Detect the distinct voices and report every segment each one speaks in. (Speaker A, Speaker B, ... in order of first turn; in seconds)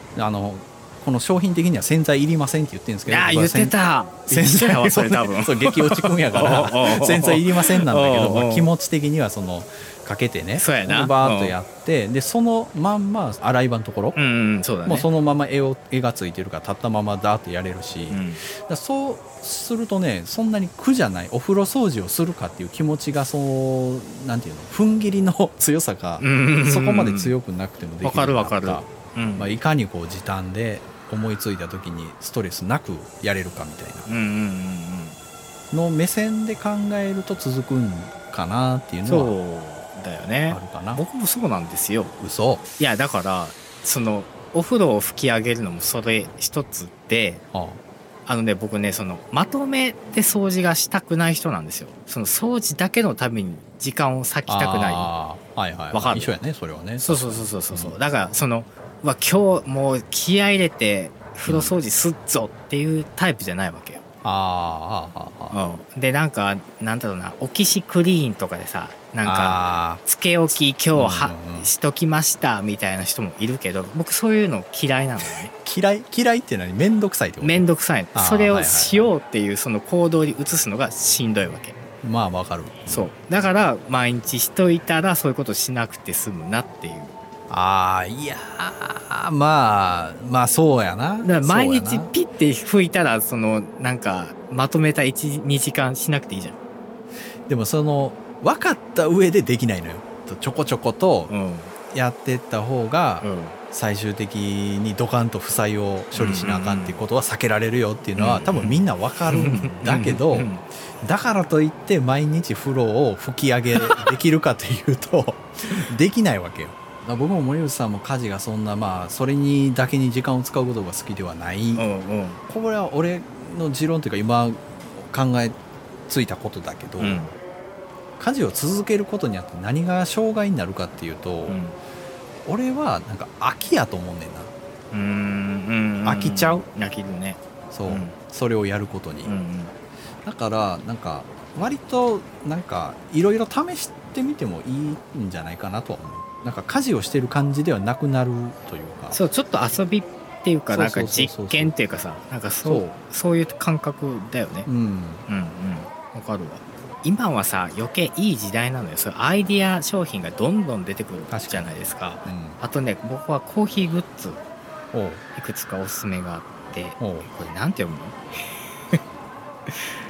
Speaker A: 0.1-3.8, 4.3-14.2, 14.9-34.1, 35.7-39.4, 40.5-41.0, 42.2-42.6, 47.5-47.8, 54.5-58.0, 61.5-61.8, 64.2-65.6, 69.2-70.0, 70.9-71.7, 75.6-79.1, 82.0-83.1, 87.5-92.1, 97.5-101.3, 101.9-121.9, 122.5-125.6, 126.1-127.3, 128.2-131.6, 132.4-134.5, 136.0-136.7, 137.7-139.3, 140.2-149.2, 150.7-151.7, 152.6-152.9, 154.7-155.3, 161.3-162.6, 164.9-165.2, 167.0-167.3
Speaker B: 3.1-8.7, 10.6-11.6, 14.2-15.1, 18.1-18.4, 26.2-27.4, 28.0-29.6, 34.1-35.2, 39.0-42.1, 42.8-47.4, 48.3-55.1, 55.9-56.4, 57.0-64.0, 65.5-75.5, 77.4-81.8, 82.9-87.2, 91.2-96.6, 101.3-101.7, 103.2-103.6, 106.2-107.0, 108.2-110.7, 121.8-122.4, 127.0-127.3, 131.5-131.8, 134.9-138.2, 139.2-139.7, 149.1-154.7, 155.3-164.4, 165.3-168.2, 169.7-170.0